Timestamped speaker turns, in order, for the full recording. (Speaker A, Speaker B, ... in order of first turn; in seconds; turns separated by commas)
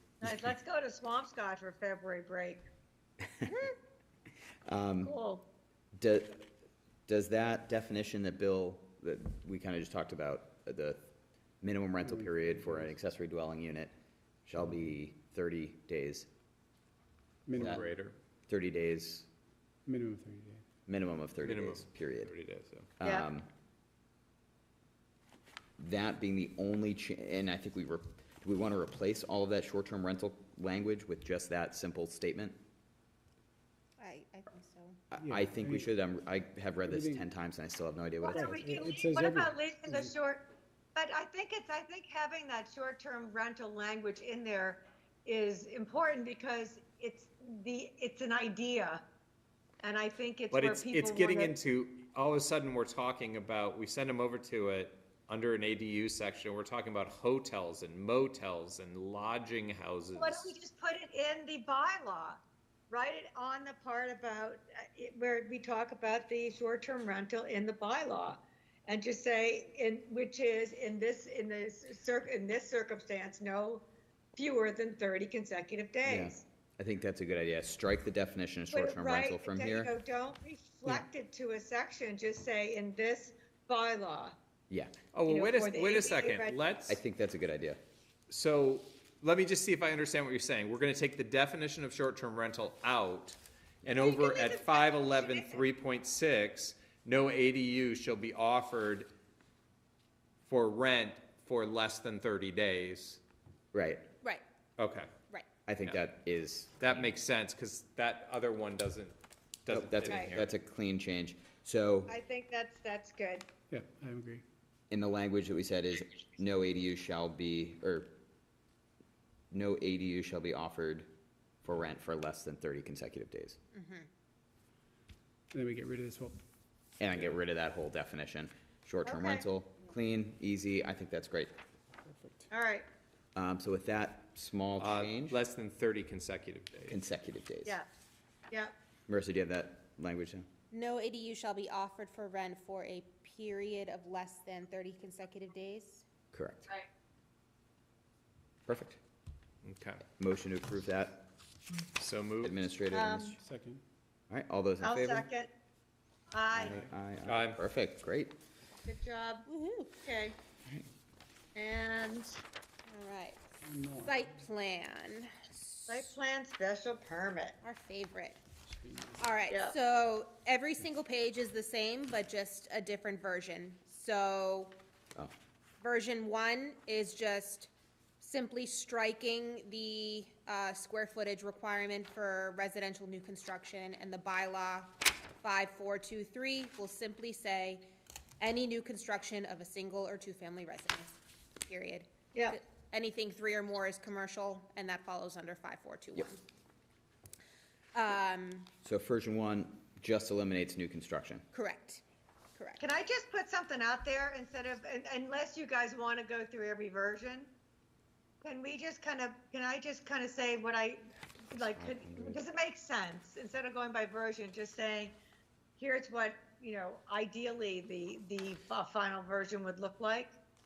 Speaker A: 0.2-2.6, Speaker B: 3.4-3.7, Speaker B: 4.7-5.2, Speaker A: 5.0-5.4, Speaker B: 6.0-6.5, Speaker B: 7.1-11.0, Speaker B: 11.6-13.9, Speaker C: 12.0-13.0, Speaker B: 14.5-16.3, Speaker C: 17.5-17.8, Speaker D: 17.6-18.2, Speaker B: 17.6-17.8, Speaker B: 18.5-19.3, Speaker C: 19.9-20.6, Speaker B: 20.9-22.3, Speaker D: 21.4-22.9, Speaker B: 23.0-23.5, Speaker A: 23.0-23.3, Speaker B: 25.8-32.6, Speaker E: 34.0-35.0, Speaker B: 35.1-38.6, Speaker C: 35.1-35.9, Speaker C: 36.9-37.3, Speaker A: 38.2-49.0, Speaker C: 38.3-40.1, Speaker A: 49.8-51.5, Speaker D: 50.5-60.6, Speaker A: 60.2-73.8, Speaker A: 74.4-76.4, Speaker B: 76.0-79.9, Speaker A: 78.7-84.3, Speaker D: 85.1-87.0, Speaker A: 85.2-86.6, Speaker B: 86.9-87.8, Speaker D: 88.3-99.1, Speaker A: 94.0-95.6, Speaker D: 100.5-103.2, Speaker B: 103.7-104.0, Speaker D: 104.8-105.1, Speaker B: 105.7-107.0, Speaker D: 106.8-110.5, Speaker B: 109.7-112.1, Speaker A: 110.1-110.4, Speaker A: 112.1-113.5, Speaker C: 113.7-114.4, Speaker B: 114.9-118.2, Speaker B: 119.5-121.1, Speaker B: 121.6-123.6, Speaker E: 123.7-124.1, Speaker C: 125.5-126.4, Speaker B: 127.0-131.5, Speaker A: 129.0-129.4, Speaker C: 132.1-132.5, Speaker A: 132.5-132.9, Speaker B: 133.3-135.4, Speaker D: 134.8-137.0, Speaker B: 136.9-137.8, Speaker B: 139.1-140.5, Speaker E: 140.7-146.0, Speaker B: 146.3-146.7, Speaker B: 148.7-149.0, Speaker D: 149.6-150.0, Speaker B: 150.2-151.3, Speaker D: 152.0-152.6, Speaker B: 152.4-153.3, Speaker A: 152.9-153.4, Speaker C: 153.3-153.8, Speaker B: 154.3-155.2, Speaker A: 154.8-155.5, Speaker A: 156.3-156.8, Speaker B: 156.5-158.3, Speaker D: 157.2-157.6, Speaker A: 158.8-159.5, Speaker E: 159.5-159.9, Speaker A: 160.0-160.3, Speaker A: 161.5-162.3, Speaker E: 162.9-163.4, Speaker C: 163.6-164.3, Speaker E: 164.0-166.1, Speaker A: 165.9-167.6, Speaker E: 167.6-168.4, Speaker C: 168.7-169.3, Speaker E: 169.2-174.7, Speaker A: 169.5-169.8, Speaker E: 175.8-187.8, Speaker E: 188.4-196.4, Speaker E: 197.9-198.7, Speaker B: 198.8-201.4, Speaker E: 201.5-202.0, Speaker E: 202.6-202.8, Speaker A: 202.8-207.5, Speaker A: 208.4-211.0, Speaker A: 211.5-215.2, Speaker B: 211.7-212.4, Speaker A: 215.8-220.4